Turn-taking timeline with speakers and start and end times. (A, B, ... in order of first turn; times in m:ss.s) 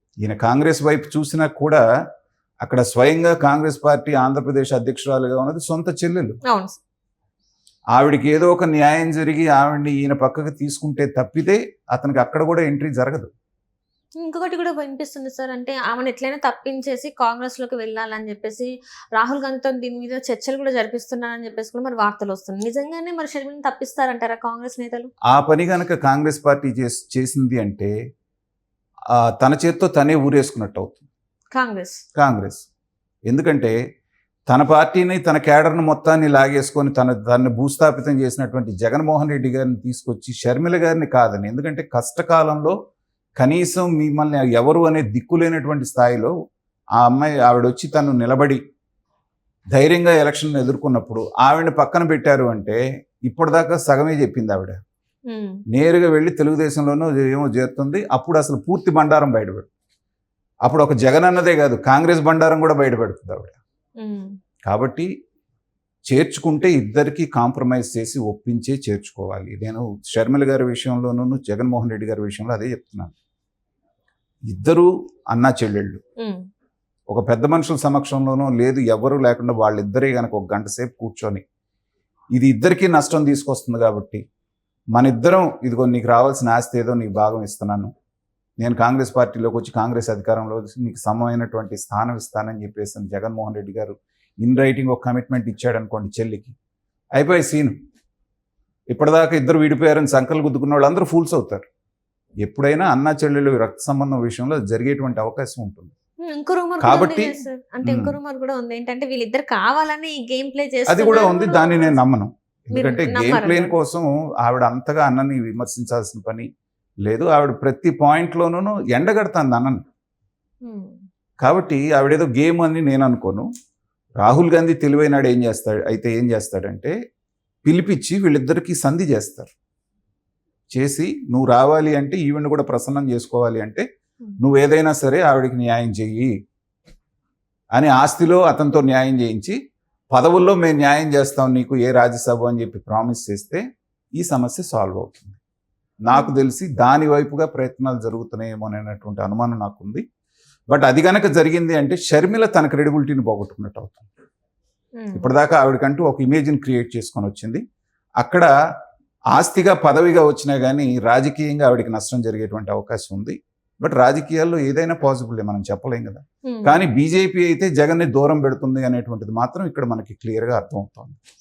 0:00.2-0:01.8 A
0:02.6-0:06.4 A
0:06.5-0:06.8 B
0:07.9-0:13.3 A
0:14.2-0:25.1 B
0:25.3-0:27.9 A
0:29.1-0:31.1 A
0:31.5-0:32.0 B
0:32.2-0:32.6 A
0:33.3-0:33.8 A
0:34.5-0:42.8 A
0:43.4-0:46.3 A
0:47.0-0:48.6 A
0:49.7-0:54.8 A
0:55.3-0:55.6 B
0:55.7-0:59.7 A
1:00.7-1:03.6 A
1:04.0-1:04.4 B
1:04.7-1:05.1 A
1:06.1-1:13.1 A
1:14.5-1:16.0 A
1:17.1-1:21.4 A
1:22.4-1:24.2 A
1:24.9-1:27.9 A
1:28.6-1:36.5 A
1:37.2-1:37.8 A
1:38.9-1:41.7 A
1:42.4-1:45.9 A
1:46.2-1:52.0 B
1:46.8-1:48.2 A
1:50.9-1:56.5 A
1:52.7-1:53.7 B
1:57.0-1:59.8 A
2:00.6-2:01.0 B
2:01.4-2:03.5 A
2:04.2-2:06.9 A
2:07.7-2:09.5 A
2:10.7-2:13.8 A
2:14.4-2:16.3 A
2:17.8-2:19.6 A
2:20.1-2:23.6 A
2:24.2-2:25.4 A
2:26.1-2:30.0 A
2:26.1-2:26.4 B
2:30.7-2:34.1 A
2:35.0-2:35.3 B
2:35.2-2:37.6 A
2:38.2-2:38.5 A
2:39.3-2:51.2 A
2:46.5-2:46.8 B